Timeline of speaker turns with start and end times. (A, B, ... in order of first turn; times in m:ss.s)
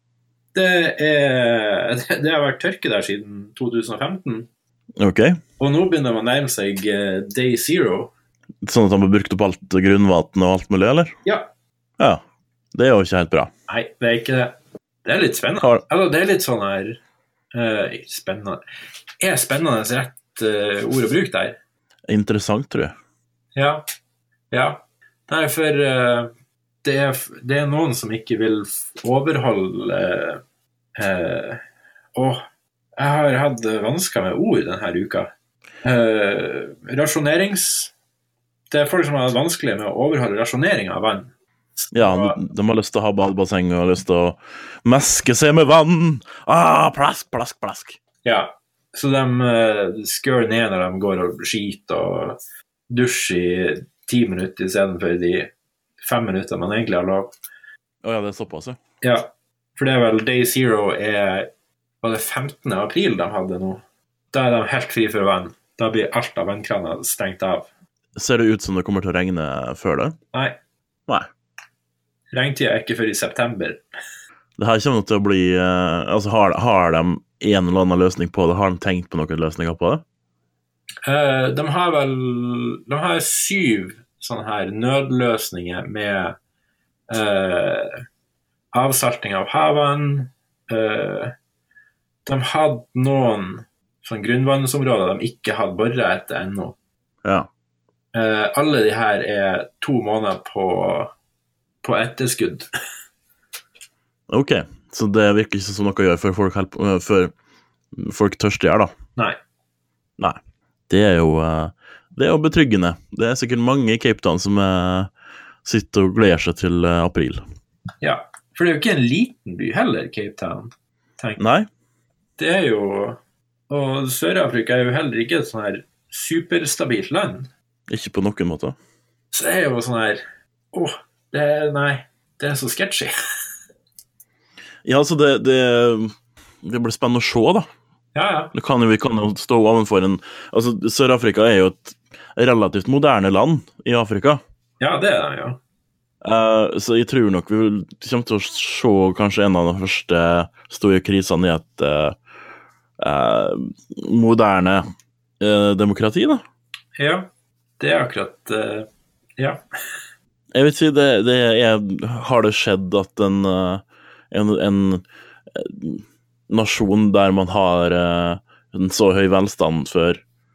0:00.5-0:04.5 A
0:05.0-0:05.4 B
0:05.6-0:08.1 A
0:08.6-0:11.2 B
0:12.7-0:13.5 B
0:13.7-0:17.0 A
0:17.5-0:18.6 A
0:19.2-0:21.6 A
0:22.1-0:22.9 B
0:23.6-0:23.8 A
0:24.5-0:26.3 A
0:26.8-0:30.4 A
0:31.0-0:31.6 A
0:32.1-0:32.4 A
0:33.0-0:35.3 A
0:35.8-0:37.9 A
0:38.7-0:42.4 A
0:41.9-0:48.0 B
0:48.2-0:52.4 A
0:52.9-0:57.3 A
0:58.0-0:58.8 B
0:59.0-1:01.5 A
1:02.0-1:07.7 A
1:08.2-1:10.2 B
1:12.3-1:13.8 A
1:14.6-1:20.0 B
1:21.0-1:26.4 A
1:27.1-1:28.0 A
1:28.7-1:31.3 A
1:32.2-1:36.8 A
1:37.2-1:37.5 B
1:38.1-1:41.1 A
1:41.8-1:42.7 A
1:44.3-1:47.3 B
1:47.9-1:48.9 B
1:50.2-1:55.1 B
1:55.6-1:57.4 B
1:58.0-2:01.4 A
2:01.4-2:01.7 B
2:02.4-2:07.5 A
2:07.9-2:08.8 B
2:09.3-2:13.1 A
2:14.8-2:17.6 B
2:18.1-2:18.5 A
2:18.5-2:24.4 B
2:24.8-2:25.6 A
2:26.2-2:32.2 B
2:33.0-2:34.8 B
2:35.4-2:36.4 B
2:37.0-2:38.9 A
2:40.5-2:50.2 B